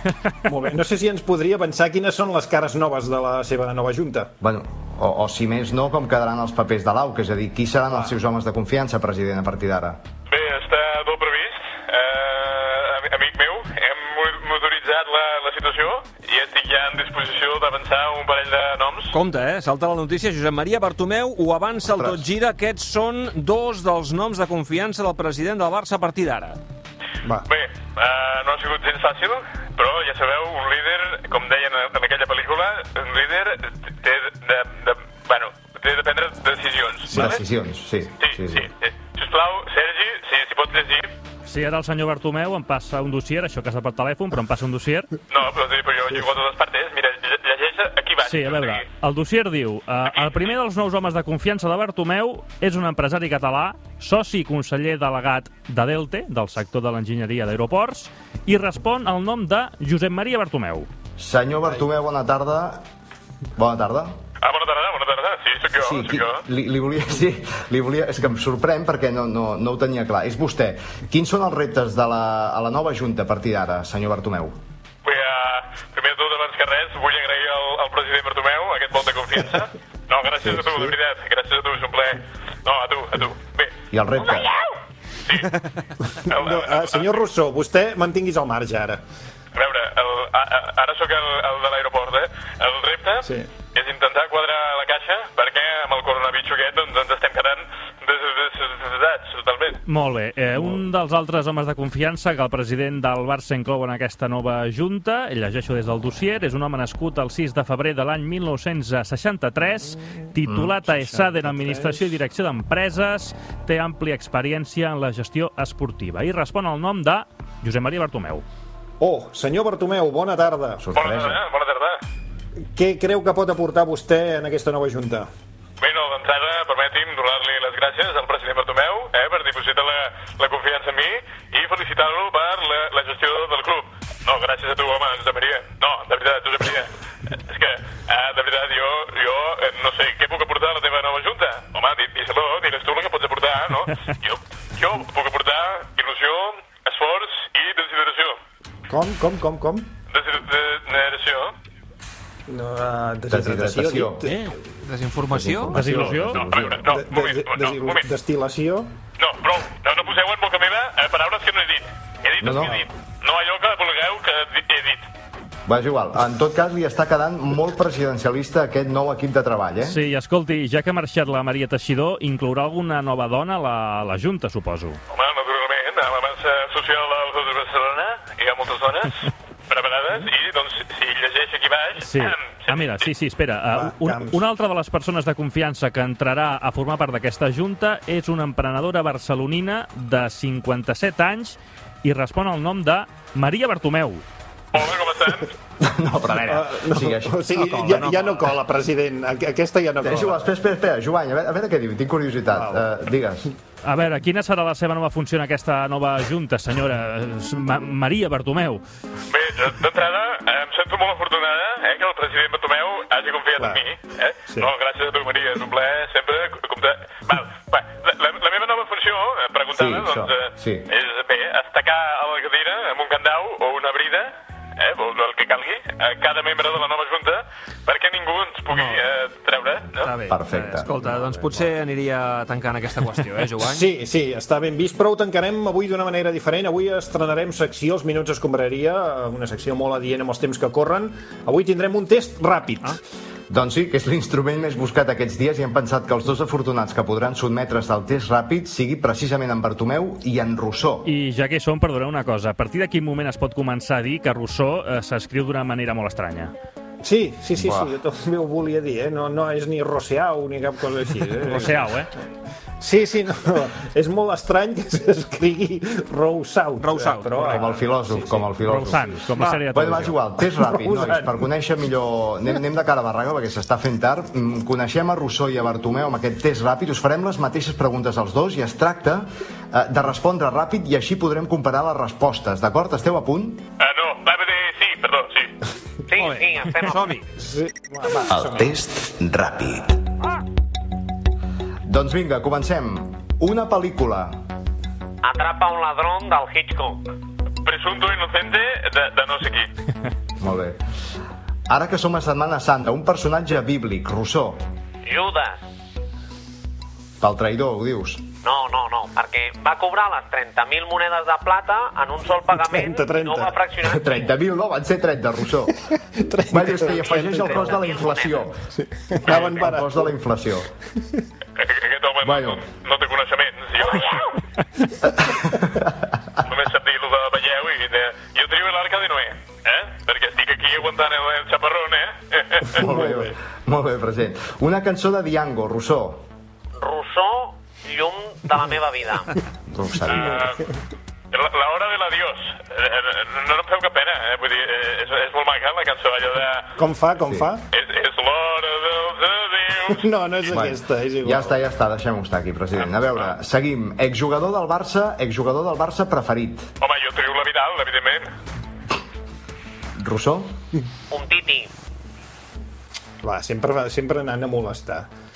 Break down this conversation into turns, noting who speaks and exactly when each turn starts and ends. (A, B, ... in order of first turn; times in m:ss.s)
0:00.4-0:04.3 A
0:04.4-0:10.0 B
0:10.3-0:19.2 C
0:19.1-0:26.6 D
0:21.9-0:22.2 B
0:27.4-0:37.4 C
0:37.1-0:38.6 B
0:38.2-0:41.1 C
0:41.4-0:45.1 E
0:45.3-0:48.8 C
0:48.2-1:00.9 E
1:01.2-1:02.8 B
1:03.6-1:04.2 B
1:04.4-1:06.4 C
1:05.7-1:14.6 B
1:15.0-1:23.7 C
1:23.9-1:24.6 B
1:24.2-1:24.7 F
1:25.2-1:25.5 C
1:26.0-1:29.0 A
1:26.3-1:27.2 C
1:29.5-1:39.8 C
1:33.2-1:33.5 A
1:39.8-1:58.4 E
1:50.4-1:50.7 B
1:50.9-1:52.0 A
1:59.0-2:00.8 A
2:00.8-2:01.4 B
2:00.9-2:02.0 C
2:02.7-2:05.3 A
2:05.8-2:28.4 C
2:28.9-2:29.9 A
2:30.1-2:31.5 C
2:32.5-2:34.5 A
2:33.3-2:34.3 B
2:34.3-2:35.8 D
2:35.3-2:36.9 B
2:35.7-2:36.4 E
2:35.8-2:36.1 A
2:36.3-2:38.0 C
2:36.8-2:38.9 A
2:39.2-2:45.1 C
2:42.4-2:42.8 B
2:45.7-2:50.0 B
2:49.8-2:55.0 E
2:55.1-3:03.0 C
3:02.0-3:14.2 E
3:03.7-3:04.4 A
3:14.7-3:15.5 C
3:15.8-3:17.5 B
3:16.4-3:20.4 A
3:17.6-3:18.4 D
3:20.0-3:23.5 B
3:22.5-3:22.8 A
3:23.8-3:28.8 E
3:29.3-3:50.1 C
3:33.6-3:33.8 A
3:39.7-3:40.9 B
3:48.7-3:49.0 D
3:50.0-3:53.8 D
3:50.3-3:51.3 B
3:53.6-4:03.0 A
4:03.5-4:11.1 B
4:11.0-4:16.5 E
4:17.0-4:22.0 A
4:17.6-4:17.9 B
4:21.4-4:22.1 E
4:22.8-4:28.4 A
4:26.8-4:27.8 D
4:27.4-4:43.6 B
4:28.6-4:30.2 E
4:29.4-4:29.6 A
4:30.5-4:31.4 A
4:43.8-4:45.5 C
4:46.1-4:47.1 F
4:46.1-4:47.3 D
4:47.4-4:48.7 A
4:48.3-4:50.0 B
4:51.8-4:54.4 B
4:55.2-4:57.1 F
4:57.6-4:59.7 C
5:00.4-5:00.8 B
5:01.7-5:04.6 B
5:05.0-5:05.6 F
5:07.2-5:08.2 B
5:08.4-5:14.2 F
5:12.6-5:13.5 A
5:13.8-5:15.7 B
5:15.9-5:17.7 A
5:16.5-5:18.6 B
5:16.8-5:18.5 F
5:18.7-5:20.1 A
5:19.2-5:20.7 B
5:21.6-5:24.3 C
5:22.2-5:22.6 B
5:23.8-5:24.3 F
5:25.3-5:26.1 B
5:26.4-5:32.8 C
5:32.7-5:33.4 A
5:32.8-5:36.2 B
5:36.8-5:39.3 F
5:39.7-5:40.4 B
5:40.1-5:40.6 C
5:41.3-5:46.7 C
5:46.8-5:47.6 A
5:47.7-5:50.0 C
5:49.8-5:51.5 A
5:50.5-5:56.7 B
5:56.8-5:58.3 C
6:00.0-6:00.5 B
6:01.1-6:01.7 F
6:03.2-6:05.1 A